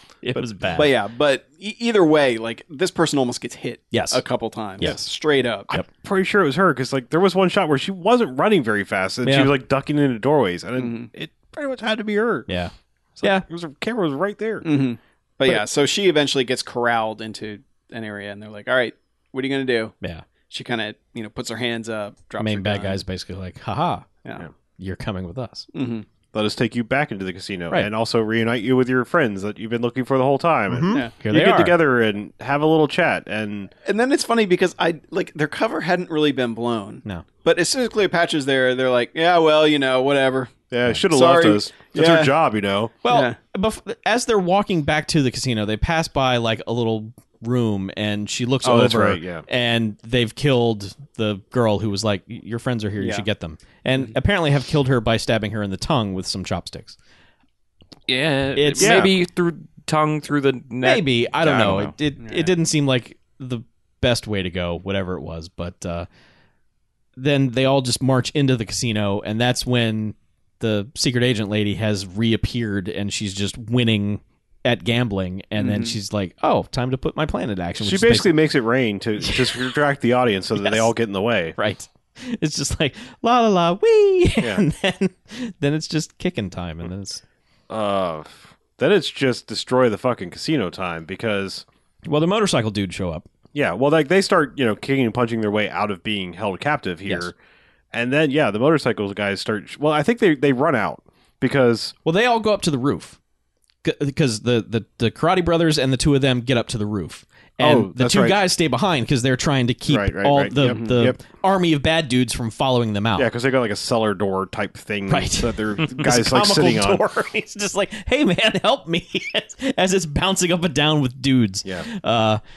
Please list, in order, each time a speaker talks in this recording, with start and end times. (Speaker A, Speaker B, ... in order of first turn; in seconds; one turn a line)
Speaker A: 0.2-0.9
Speaker B: 0.3-0.6
Speaker C: 0.7-5.7
Speaker A: 3.9-4.2
Speaker A: 4.8-5.0
Speaker B: 5.7-12.5
Speaker A: 9.2-9.5
Speaker C: 10.8-11.1
Speaker A: 12.5-13.4
Speaker B: 13.2-14.7
Speaker C: 14.6-19.9
Speaker C: 20.5-23.0
Speaker A: 22.4-24.1
Speaker A: 24.8-25.6
Speaker C: 25.7-26.1
Speaker B: 26.3-33.7
Speaker A: 30.7-31.8
Speaker C: 33.8-40.5
Speaker B: 40.7-42.9
Speaker C: 41.1-42.3
Speaker A: 43.0-57.0
Speaker C: 43.1-43.4
Speaker B: 48.6-49.4
Speaker C: 53.0-53.3
Speaker D: 58.1-61.9
Speaker A: 58.5-59.1
Speaker B: 58.8-59.1
Speaker A: 60.8-66.1
Speaker C: 62.2-62.5
Speaker A: 67.2-78.4
Speaker C: 75.6-76.0
Speaker B: 77.8-81.6
Speaker A: 79.2-79.7
Speaker A: 80.6-80.9
Speaker A: 81.6-87.2
Speaker B: 84.4-84.6
Speaker B: 87.7-91.7
Speaker A: 92.0-93.2
Speaker B: 93.5-97.3
Speaker A: 97.0-97.3
Speaker B: 97.9-101.9
Speaker A: 102.0-103.2
Speaker A: 103.8-113.3
Speaker B: 107.6-108.4
Speaker B: 109.9-111.2
Speaker C: 110.6-110.9
Speaker B: 113.2-117.0
Speaker A: 115.1-122.4